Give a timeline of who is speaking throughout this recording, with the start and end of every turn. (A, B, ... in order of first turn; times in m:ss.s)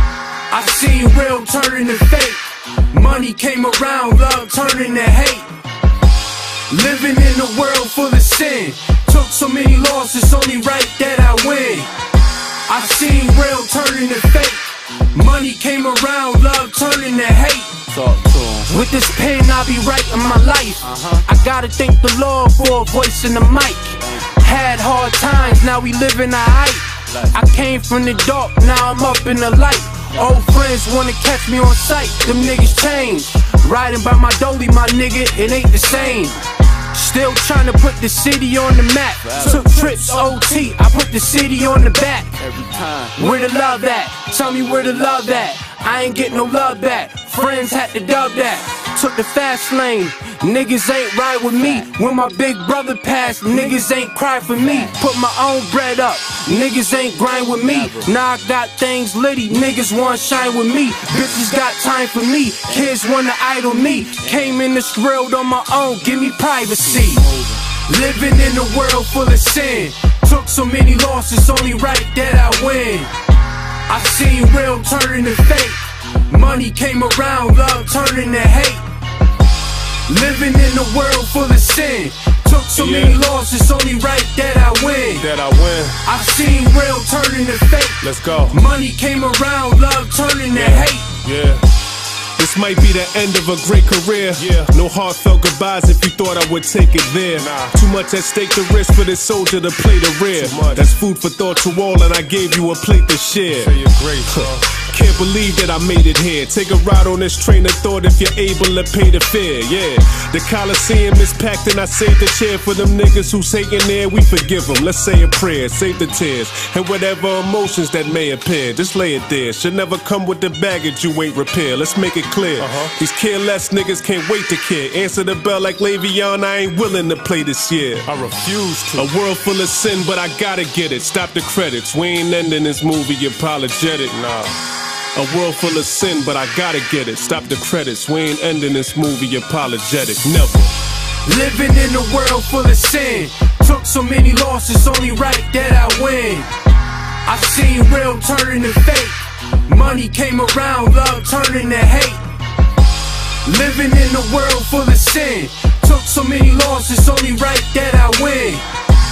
0:00.5-0:05.5 A
0:06.7-0:11.9 A
0:12.6-0:17.8 A
0:17.9-0:18.7 B
0:18.7-0:42.4 A
0:20.8-0:21.2 B
0:39.3-0:40.2 B
0:42.4-0:43.1 B
0:43.1-1:13.1 A
1:07.0-1:07.6 B
1:13.9-1:18.9 A
1:20.0-1:25.3 A
1:22.8-1:23.2 C
1:25.3-1:25.9 C
1:26.0-1:31.1 A
1:28.0-1:28.6 C
1:30.6-1:30.9 C
1:31.2-1:31.6 D
1:32.4-1:43.8 C
1:34.4-1:34.6 D
1:37.4-1:37.7 D
1:40.4-1:40.8 D
1:43.6-1:44.6 D
1:44.3-2:08.1 C
2:02.6-2:02.9 D
2:08.1-2:09.0 D
2:09.0-2:14.2 C
2:14.1-2:14.6 D
2:15.1-2:20.7 C
2:21.2-2:26.5 A
2:27.2-2:32.3 A
2:33.4-2:38.6 A